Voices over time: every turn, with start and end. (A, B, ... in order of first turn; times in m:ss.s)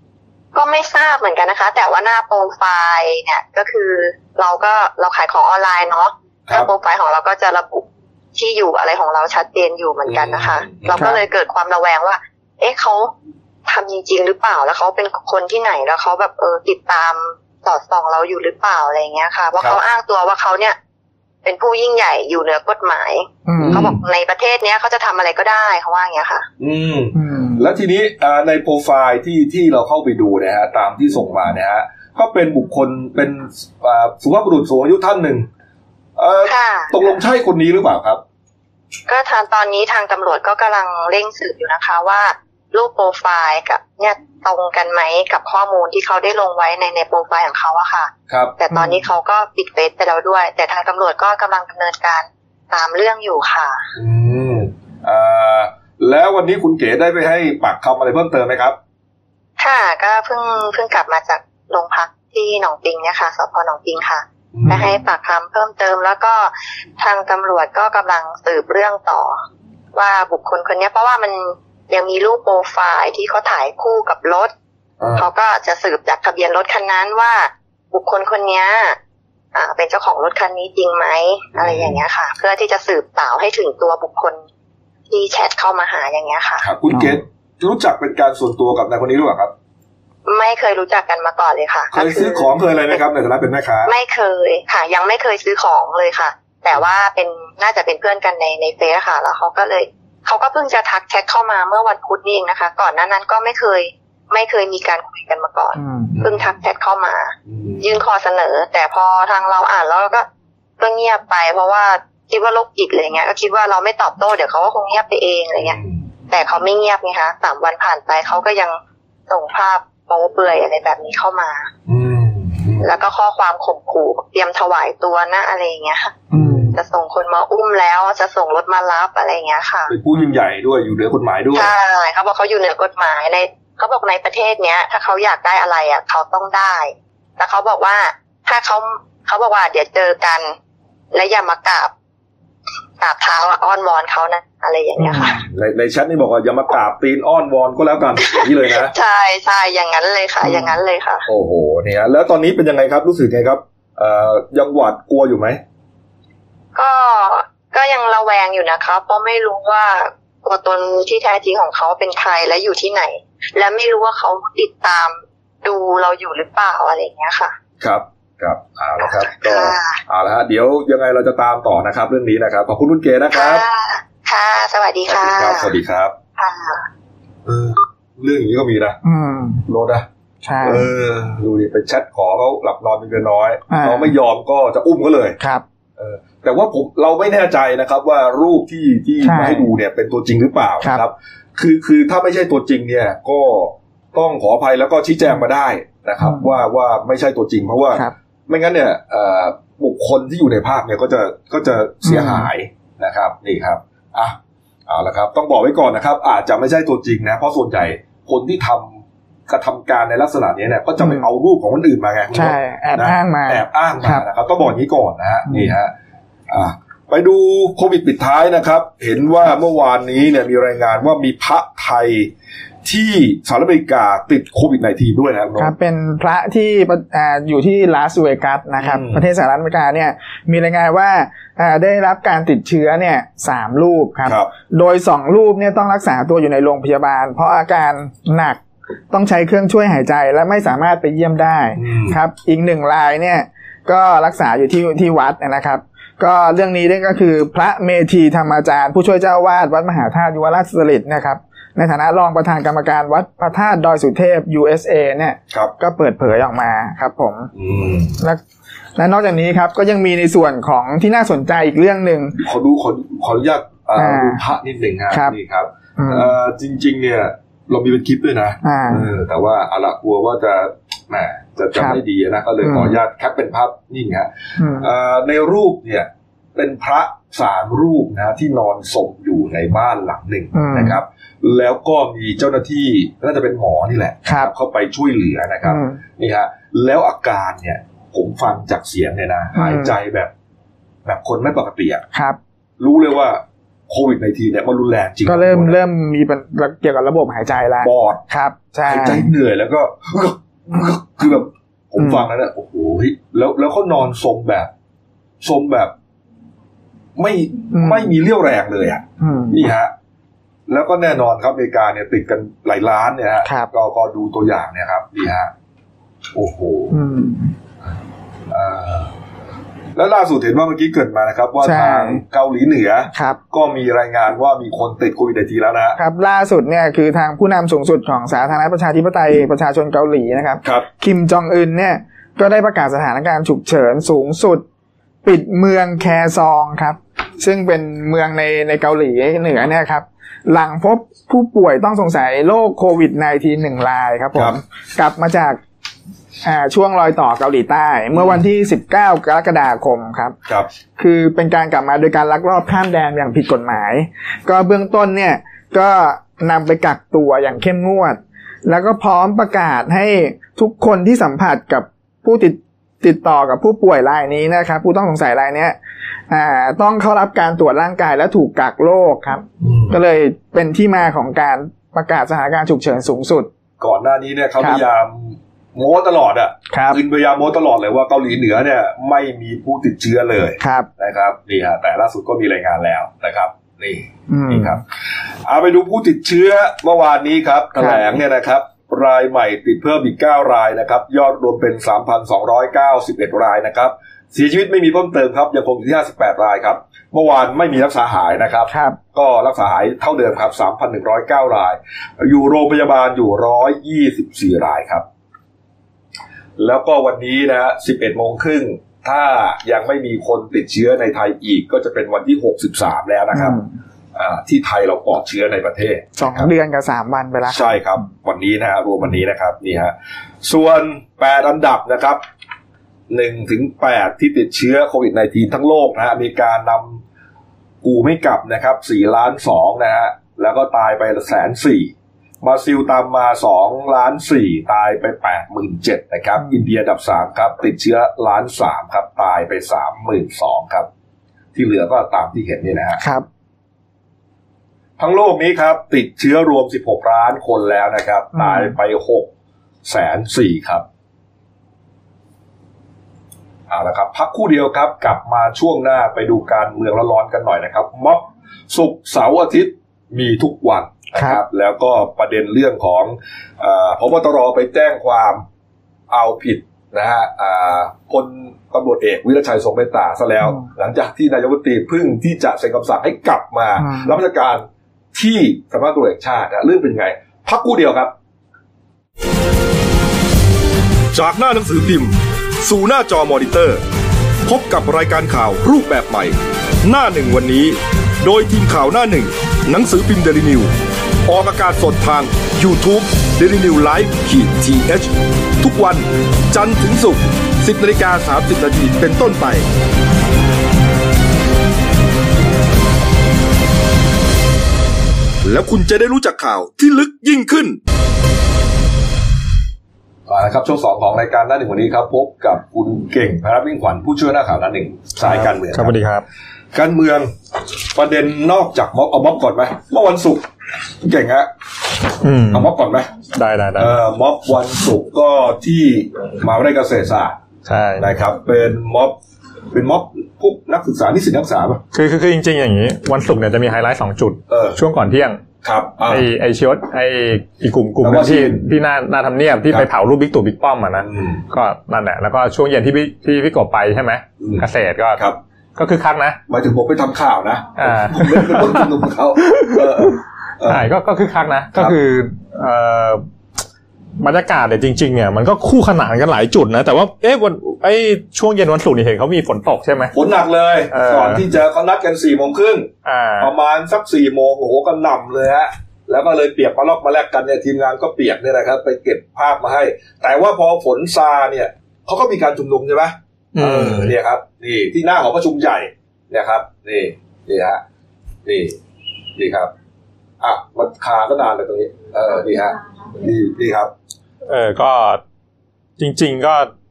0:00.5-0:13.1 A
0:10.0-0:11.0 B
0:10.9-0:11.2 C
0:13.7-0:20.8 A
0:21.4-0:26.4 A
0:23.5-0:23.9 C
0:23.6-0:24.0 B
0:26.6-0:35.5 B
0:27.1-0:27.6 C
0:36.2-0:38.2 B
0:36.4-0:37.0 A
0:39.1-0:53.9 A
0:48.3-0:48.5 B
0:48.7-0:49.0 C
0:54.0-0:58.8 B
0:59.6-1:09.4 A
1:04.5-1:05.0 B
1:09.9-1:14.5 A
1:15.0-1:15.3 B
1:15.2-1:19.0 A
1:19.5-1:24.4 A
1:21.5-1:22.0 B
1:25.1-1:26.7 A
1:26.6-1:29.5 B
1:26.9-1:27.2 C
1:30.2-1:33.0 A
1:31.9-1:33.9 B
1:33.8-1:50.2 A
1:45.8-1:46.1 C
1:46.1-1:46.6 B
1:47.5-1:48.0 B
1:50.8-1:55.8 A
1:55.6-1:56.1 B
1:56.3-2:01.7 A
2:01.9-2:02.9 B
2:02.8-2:09.9 A
2:06.3-2:06.8 B
2:06.3-2:06.7 C
2:09.9-2:11.7 B
2:10.1-2:10.4 C
2:11.5-2:20.6 A
2:21.1-2:21.9 A
2:23.0-2:25.4 A
2:25.0-2:25.4 C
2:25.5-2:28.9 B
2:28.2-2:31.2 A
2:30.4-2:30.8 C
2:31.3-2:35.6 B
2:36.7-2:47.5 A
2:47.8-2:53.6 B
2:49.0-2:50.0 A
2:53.3-2:55.7 A
2:55.0-2:56.2 B
2:56.4-2:56.9 A
2:57.4-2:59.0 B
2:59.0-2:59.6 C
2:59.6-3:00.1 B
3:00.4-3:00.9 C
3:00.6-3:05.4 B
3:03.7-3:04.1 C
3:05.4-3:05.6 C
3:06.0-3:24.4 B
3:09.2-3:09.7 C
3:16.2-3:16.5 C
3:22.0-3:22.5 C
3:24.9-3:35.9 B
3:31.0-3:31.2 C
3:32.3-3:34.2 C
3:35.5-3:35.7 C
3:36.5-3:42.3 B
3:42.8-3:45.7 B
3:45.6-4:17.5 C
3:48.8-3:49.2 B
3:54.2-3:54.5 B
4:01.8-4:02.2 B
4:17.5-4:18.2 B
4:19.0-4:22.4 C
4:22.4-4:50.3 B
4:24.0-4:24.4 C
4:25.1-4:25.4 C
4:26.0-4:26.3 C
4:28.6-4:29.1 C
4:31.7-4:32.0 C
4:32.6-4:33.0 C
4:34.6-4:34.9 C
4:40.5-4:41.0 C
4:44.2-4:44.5 C
4:45.6-4:46.0 C
4:49.6-4:49.9 C
4:51.0-4:52.0 B
4:52.1-4:52.4 C
4:52.8-4:55.8 B
4:55.2-4:59.3 C
4:57.8-4:58.2 B
4:58.8-5:04.7 B
5:02.0-5:02.3 C
5:05.4-5:05.9 B
5:07.2-5:09.9 B
5:07.7-5:08.1 C
5:09.2-5:09.6 C
5:10.7-5:15.5 B
5:13.4-5:13.7 C
5:16.3-5:17.0 B
5:16.9-5:17.5 C
5:18.5-5:19.1 B
5:19.9-5:26.0 B
5:21.6-5:22.2 C
5:23.1-5:23.4 C
5:26.0-5:34.6 C
5:35.2-5:45.6 C
5:46.4-5:50.4 C
5:51.0-6:05.8 C
6:06.3-6:13.5 C
6:09.6-6:10.0 B
6:13.8-6:24.8 B
6:16.7-6:17.0 C
6:20.6-6:20.9 C
6:24.3-6:24.8 C
6:25.4-6:45.0 B
6:27.8-6:28.0 C
6:38.7-6:39.0 C
6:46.6-6:53.6 B
6:53.3-6:53.7 C
6:54.1-6:56.5 B
6:56.2-6:57.6 C
6:57.5-7:02.2 B
7:03.1-7:07.0 B
7:07.8-7:20.9 B
7:21.5-7:23.0 B
7:23.0-7:23.2 C
7:25.0-7:29.3 B
7:28.3-7:28.8 C
7:29.8-7:30.8 B
7:33.7-7:45.4 B
7:41.1-7:41.4 C
7:46.1-7:58.1 B
7:53.8-7:54.1 C
8:01.1-8:03.8 B
8:04.4-8:10.7 B
8:11.2-8:19.6 B
8:25.4-8:27.8 B
8:30.3-8:36.0 B
8:35.2-8:36.2 D
8:36.7-8:37.3 B
8:37.9-8:40.5 B
8:41.0-8:41.5 B
8:42.2-8:42.7 D
8:42.4-8:43.1 B
8:43.3-8:43.9 D
8:43.8-8:47.4 B
8:47.6-8:48.1 D
8:48.0-8:49.2 B
8:49.7-8:51.8 B
8:51.9-8:55.4 D
8:54.5-8:54.8 B
8:55.6-8:56.3 B
8:56.0-9:05.2 D
8:58.0-8:58.6 B
9:01.0-9:01.4 B
9:04.4-9:05.4 B
9:05.8-9:06.4 D
9:06.5-9:10.9 B
9:07.8-9:08.9 D
9:09.5-9:10.0 D
9:10.6-9:13.2 D
9:14.2-9:20.1 D
9:20.1-9:37.8 B
9:20.9-9:21.4 D
9:23.0-9:23.5 D
9:33.5-9:34.1 D
9:38.4-9:38.8 B
9:39.4-9:39.7 B
9:40.4-9:43.9 B
9:44.5-9:45.2 D
9:46.0-9:46.7 D